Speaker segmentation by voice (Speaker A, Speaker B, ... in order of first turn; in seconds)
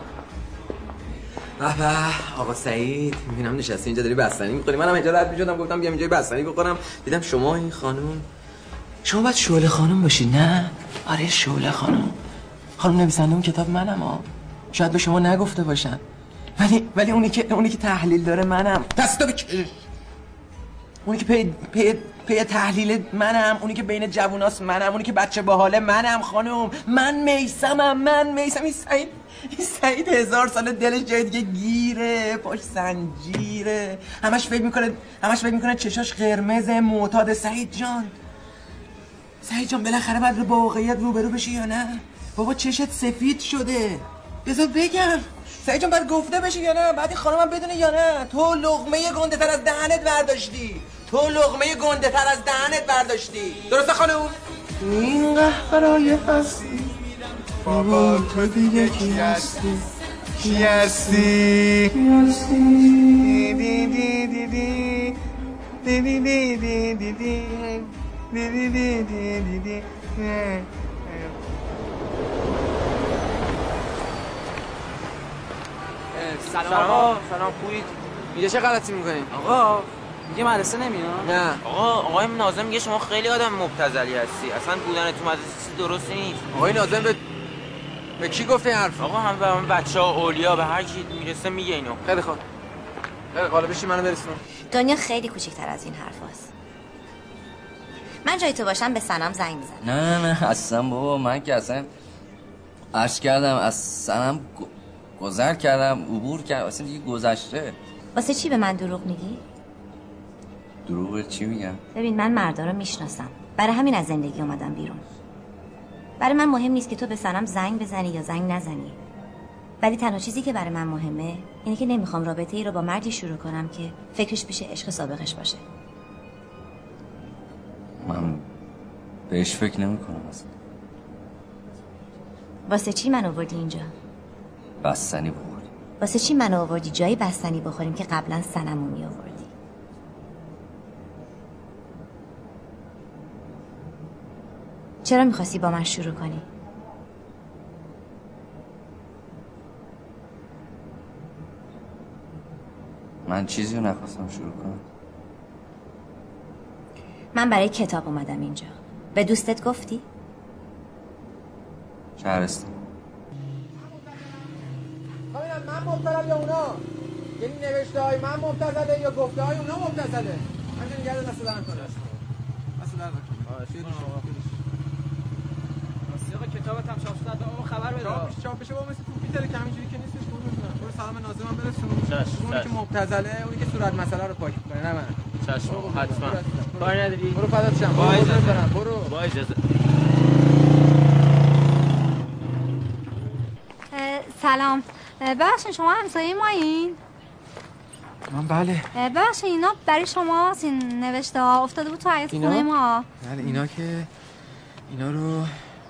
Speaker A: 1.6-8.3, 9.1-12.2, 12.8-16.0, 16.6-19.7, 21.1-38.1, 39.4-54.4, 54.9-56.6, 57.7-59.8, 60.4-61.2, 62.1-63.0, 76.4-77.2, 78.3-79.4, 81.2-81.6, 86.5-87.2, 88.2-89.0, 92.0-92.4, 93.3-94.4, 165.3-166.8, 167.4-172.0, 172.8-174.6, 178.0-189.2, 198.3-198.9, 202.3-202.7, 203.2-204.1, 204.9-205.6
Speaker B: 56.3-56.7, 57.6-59.6, 60.4-61.9, 63.2-65.0, 65.8-70.6
Speaker C: 76.2-77.9, 79.3-86.5, 89.0-92.0, 173.8-174.2, 177.3-178.3, 182.1-182.7, 185.4-187.4, 187.9-189.5
Speaker D: 94.7-96.5, 98.2-99.8, 108.1-109.4, 112.0-115.1, 116.2-119.0, 119.8-125.6, 132.7-133.9, 136.0-139.5, 145.1-146.5, 157.3-160.1
Speaker E: 99.8-101.9, 102.9-107.8, 110.9-111.8, 128.0-128.4, 129.3-130.5, 134.8-135.7, 153.3-154.8, 162.2-162.8
Speaker F: 193.9-197.0, 198.9-203.6